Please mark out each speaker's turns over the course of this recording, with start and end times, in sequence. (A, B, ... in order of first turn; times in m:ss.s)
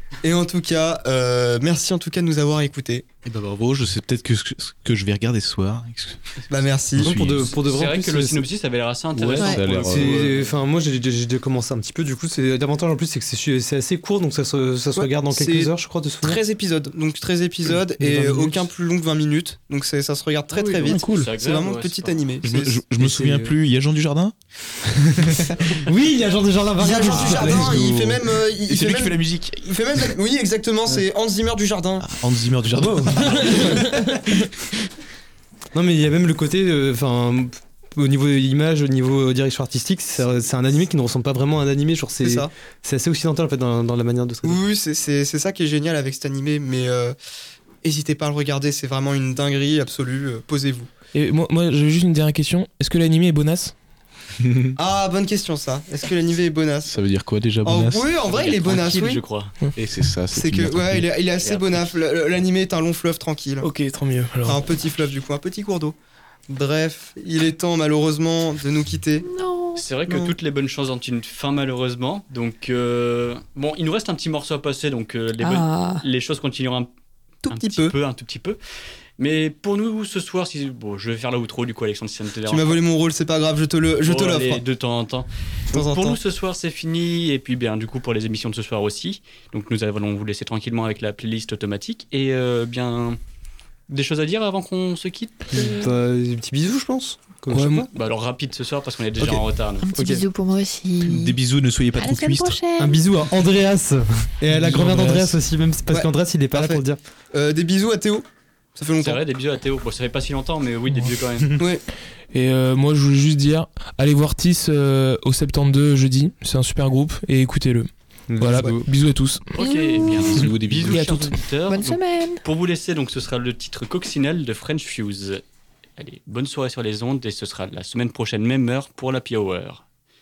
0:00.2-0:03.0 A
0:03.2-0:06.4 B
0:06.5-0:07.2 A
0:07.0-0:07.6 B
0:07.0-0:08.5 C
0:07.6-0:10.5 D
0:09.2-0:16.4 C
0:09.2-0:10.4 B
0:15.0-0:22.8 A
0:18.0-0:18.7 C
0:20.5-0:21.0 C
0:20.8-0:21.3 E
0:21.0-0:22.2 D
0:22.4-0:24.3 B
0:23.0-0:23.5 C
0:25.1-0:28.2 C
0:26.8-0:32.0 A
0:27.1-0:27.9 B
0:28.7-0:30.1 B
0:32.0-0:34.1 B
0:32.7-0:33.9 C
0:35.7-0:44.6 C
0:42.2-0:42.5 A
0:44.4-0:47.2 A
0:47.8-0:50.9 A
0:51.1-0:53.7 E
0:54.8-0:57.0 A
0:56.9-0:58.1 B
0:57.6-0:59.2 A
0:58.2-0:59.6 D
0:59.7-1:01.1 B
1:00.3-1:03.7 A
1:01.4-1:02.0 D
1:03.6-1:04.6 E
1:04.4-1:06.0 A
1:06.5-1:09.2 A
1:09.2-1:09.8 F
1:09.7-1:16.9 D
1:10.1-1:10.3 A
1:15.4-1:16.0 F
1:17.4-1:17.9 A
1:17.5-1:18.6 D
1:19.2-1:22.8 D
1:22.5-1:24.6 A
1:24.0-1:33.2 D
1:25.7-1:26.2 A
1:33.9-1:35.4 D
1:35.5-1:37.9 C
1:35.6-1:35.9 F
1:37.5-1:37.9 E
1:37.9-1:39.9 D
1:39.2-1:40.2 C
1:39.8-1:41.3 F
1:41.0-1:42.6 B
1:42.0-1:43.0 F
1:42.8-1:47.0 C
1:44.5-1:45.4 E
1:45.9-1:48.2 A
1:48.8-1:49.2 A
1:49.0-1:51.6 D
1:51.6-1:51.8 A
1:52.3-1:59.5 E
1:58.3-1:58.9 C
1:59.5-2:05.4 D
2:00.3-2:01.1 B
2:00.4-2:01.4 E
2:01.7-2:02.4 F
2:06.0-2:09.8 D